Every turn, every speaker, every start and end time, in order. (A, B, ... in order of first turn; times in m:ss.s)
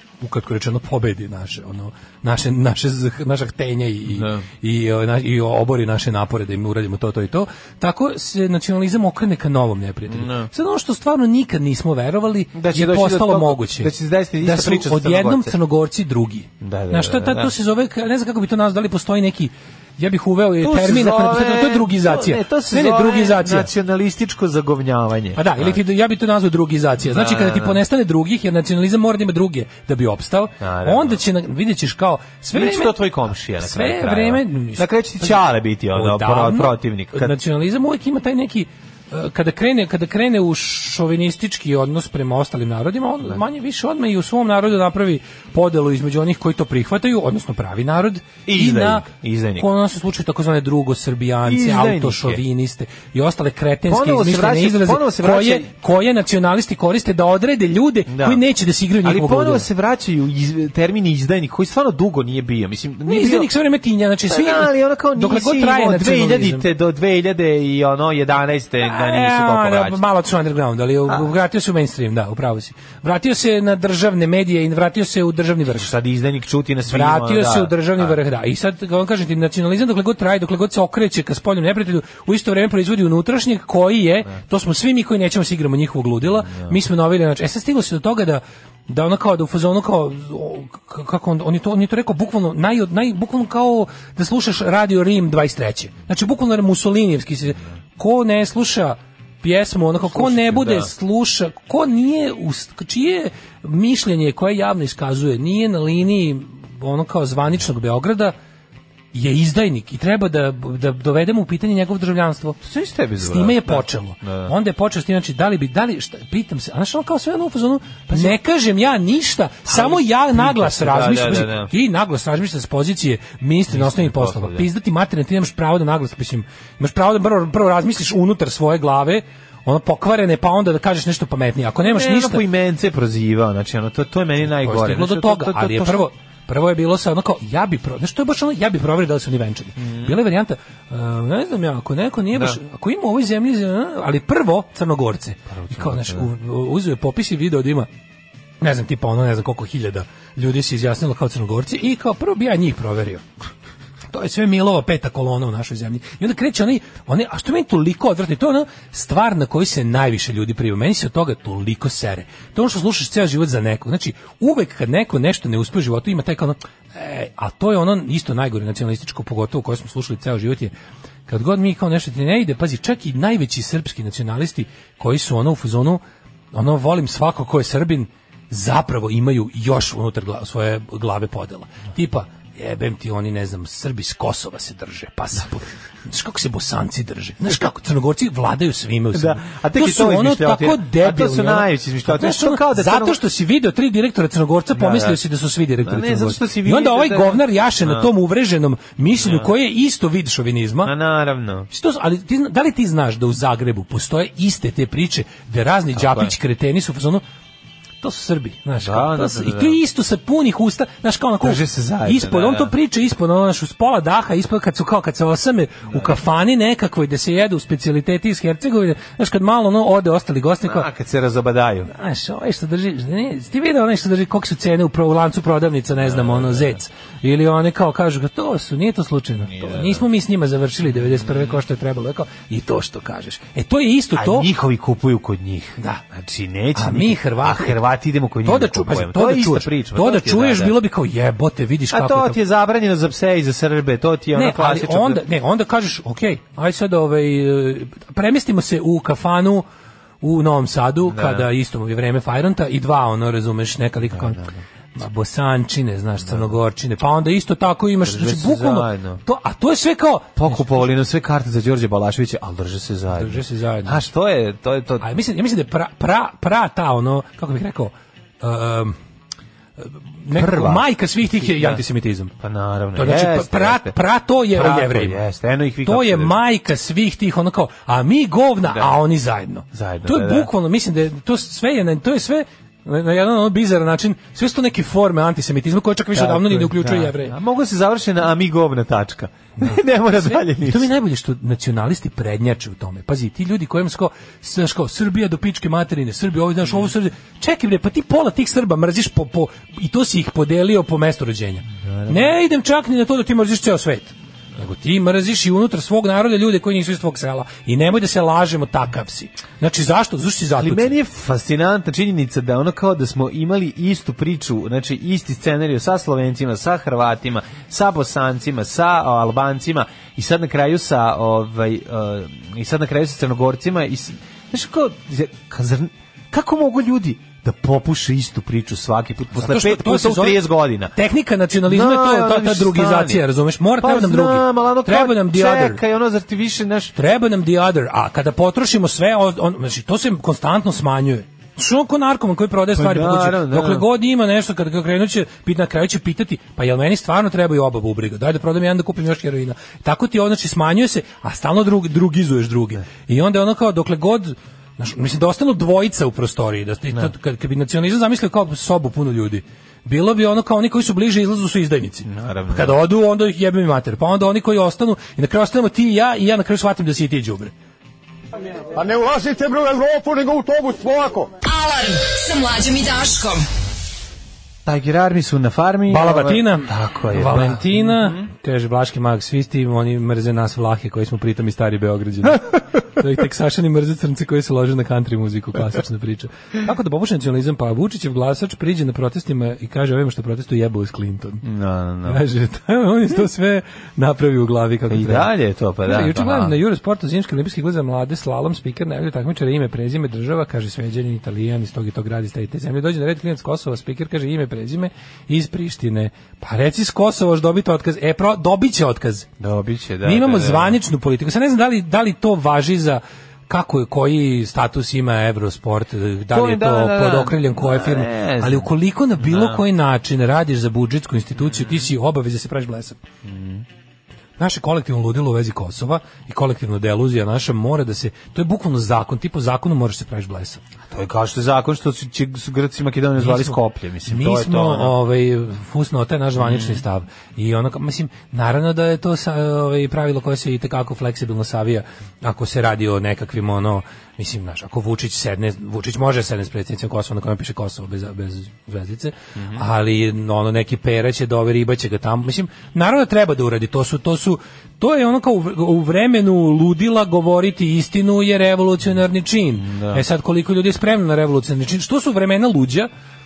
0:00.2-0:23.7 A
0:04.1-0:04.4 B
0:10.1-0:10.5 B
0:12.5-0:15.5 B
0:16.6-0:17.5 B
0:20.6-0:25.8 B
0:25.4-0:33.0 A
0:27.0-0:27.8 B
0:30.6-0:31.2 B
0:32.5-0:37.3 B
0:33.6-0:35.4 A
0:35.9-0:59.6 A
0:48.4-0:49.7 B
0:51.4-0:52.4 B
0:53.9-0:55.7 B
0:58.1-0:58.4 B
0:59.0-1:03.5 B
1:03.0-1:06.6 A
1:04.3-1:10.0 B
1:08.8-1:15.9 A
1:15.6-1:18.2 B
1:16.9-1:48.3 A
1:26.5-1:26.7 B
1:40.1-1:40.9 B
1:49.1-1:52.6 A
1:52.6-1:54.5 B
1:53.2-2:12.4 A
1:58.1-1:58.4 B
1:59.6-2:01.7 B
2:03.7-2:04.7 B
2:11.8-2:16.1 B
2:14.5-2:27.9 A
2:19.8-2:20.1 B
2:22.3-2:22.6 B
2:25.5-2:26.3 B
2:28.6-2:33.2 A
2:34.1-2:50.7 A
2:51.3-2:56.0 A
2:56.5-3:20.9 A
3:09.1-3:13.2 B
3:14.7-3:15.2 B
3:15.8-3:18.1 B
3:19.2-3:19.5 B
3:20.8-3:21.7 B
3:21.7-3:27.2 A
3:25.9-3:26.3 B
3:28.0-3:40.9 A
3:28.8-3:29.8 B
3:31.4-3:32.7 B
3:35.9-3:36.2 B
3:40.6-3:41.9 B
3:41.9-3:54.5 A
3:46.0-3:46.7 B
3:49.5-3:50.0 B
3:51.1-3:51.5 B
3:54.2-4:00.7 B
3:55.8-3:56.0 A
3:56.7-3:57.8 A
3:58.4-4:02.4 A
4:01.9-4:05.2 B
4:04.3-4:09.6 A
4:10.2-4:20.8 A
4:11.0-4:11.5 B
4:14.1-4:14.6 B
4:16.2-4:16.5 B
4:18.0-4:19.2 B
4:20.4-4:25.0 B
4:23.1-4:24.0 A
4:25.0-4:29.0 A
4:29.8-4:32.3 A
4:30.3-4:30.8 B
4:31.5-4:31.8 B
4:32.4-4:34.0 B
4:32.9-4:35.2 A
4:34.5-4:36.4 B
4:35.8-4:47.3 A
4:38.6-4:38.9 B
4:39.7-4:40.5 B
4:46.1-4:50.9 B
4:49.6-5:11.0 A
5:01.8-5:02.3 B
5:10.6-5:30.9 B
5:29.4-5:35.8 A
5:31.6-5:33.2 B
5:33.8-5:37.0 B
5:36.9-6:07.5 A
5:42.7-5:43.9 B
6:02.0-6:02.8 B
6:08.7-6:11.3 C
6:11.4-6:13.4 D
6:14.6-6:18.2 B
6:15.9-6:31.4 A
6:31.4-6:32.2 B
6:32.0-6:35.3 A
6:34.9-6:36.6 B
6:35.8-6:49.3 A
6:49.4-6:50.8 B
6:50.0-7:03.0 A
6:56.3-6:59.6 B
7:01.4-7:01.8 B
7:03.2-7:03.6 B
7:04.4-7:10.6 A
7:10.9-7:14.9 B
7:13.2-7:42.9 A
7:16.4-7:16.8 B
7:29.4-7:29.6 B
7:39.6-7:40.0 B